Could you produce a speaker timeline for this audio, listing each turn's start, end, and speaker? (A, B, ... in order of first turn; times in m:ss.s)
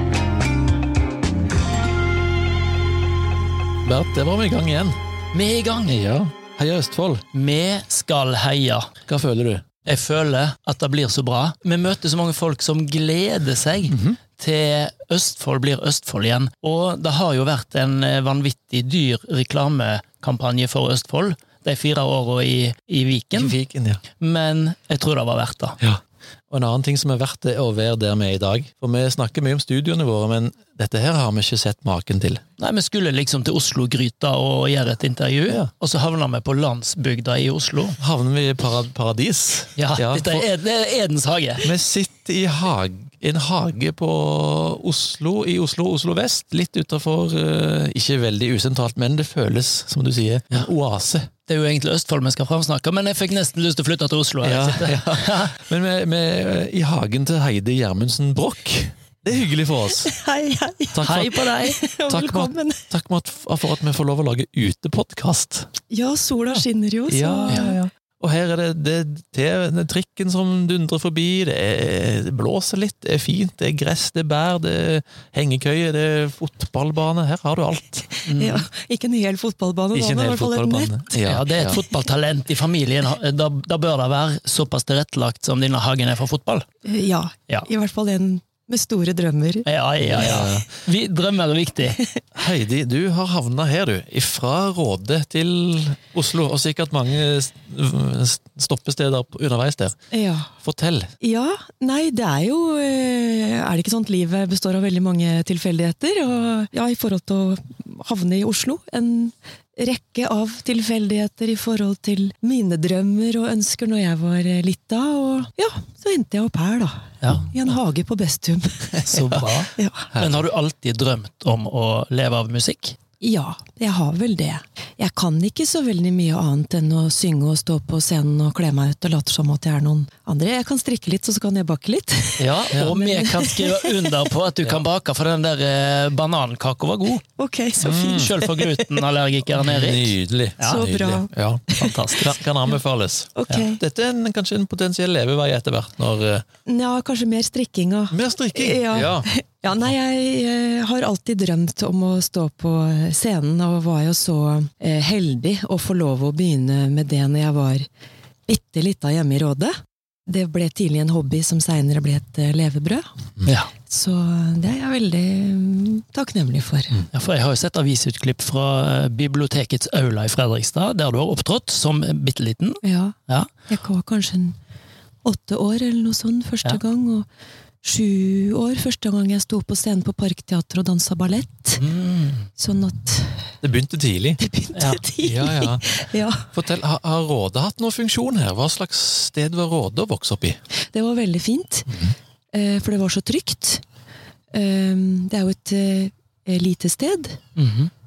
0:03.8-0:05.0 A
0:05.3-0:06.0 B
0:05.8-0:07.2 A
0:07.3-0:08.9 B
0:09.1-0:09.6 A
0:09.8-0:23.5 B
0:13.9-0:14.2 A
0:23.3-0:24.0 A
0:24.2-0:25.8 B
0:26.5-0:32.4 A
0:32.6-0:38.0 B
0:38.0-0:40.4 A
0:39.8-0:41.6 B
0:41.6-0:51.3 A
0:51.4-0:55.5 B
0:54.4-1:00.1 A
1:00.0-1:02.8 C
1:00.9-1:01.5 A
1:01.0-1:01.8 B
1:02.1-1:05.7 A
1:05.9-1:07.8 C
1:07.1-1:18.2 A
1:18.2-1:18.6 B
1:18.4-1:20.9 C
1:19.9-1:21.8 A
1:21.2-1:26.6 B
1:26.8-1:29.6 C
1:29.6-1:32.0 B
1:30.0-1:30.7 A
1:32.3-1:40.1 A
1:40.1-1:40.5 C
1:40.6-1:41.1 A
1:41.2-2:00.1 C
1:57.2-1:57.5 B
1:59.0-2:03.0 B
2:03.2-2:14.0 C
2:12.4-2:17.2 B
2:17.4-2:19.0 C
2:17.8-2:18.3 A
2:17.8-2:20.8 B
2:19.5-2:21.6 A
2:20.6-2:22.3 C
2:21.8-2:22.3 B
2:22.2-2:26.4 A
2:23.3-2:23.8 C
2:26.6-2:37.8 C
2:28.1-2:29.3 A
2:38.5-2:39.7 C
2:40.3-2:43.0 C
2:43.4-2:43.7 B
2:43.9-2:47.0 C
2:47.1-2:53.5 B
2:52.8-2:53.1 C
2:53.7-2:54.6 C
2:55.2-2:57.2 C
2:57.8-3:01.8 C
3:01.8-3:02.4 B
3:02.6-3:03.5 C
3:03.6-3:04.4 A
3:04.4-3:06.4 C
3:04.7-3:05.0 B
3:05.2-3:05.9 A
3:06.5-3:10.6 A
3:10.9-3:11.9 C
3:11.9-3:12.1 A
3:12.5-3:13.8 C
3:14.5-3:17.4 C
3:17.6-3:17.9 B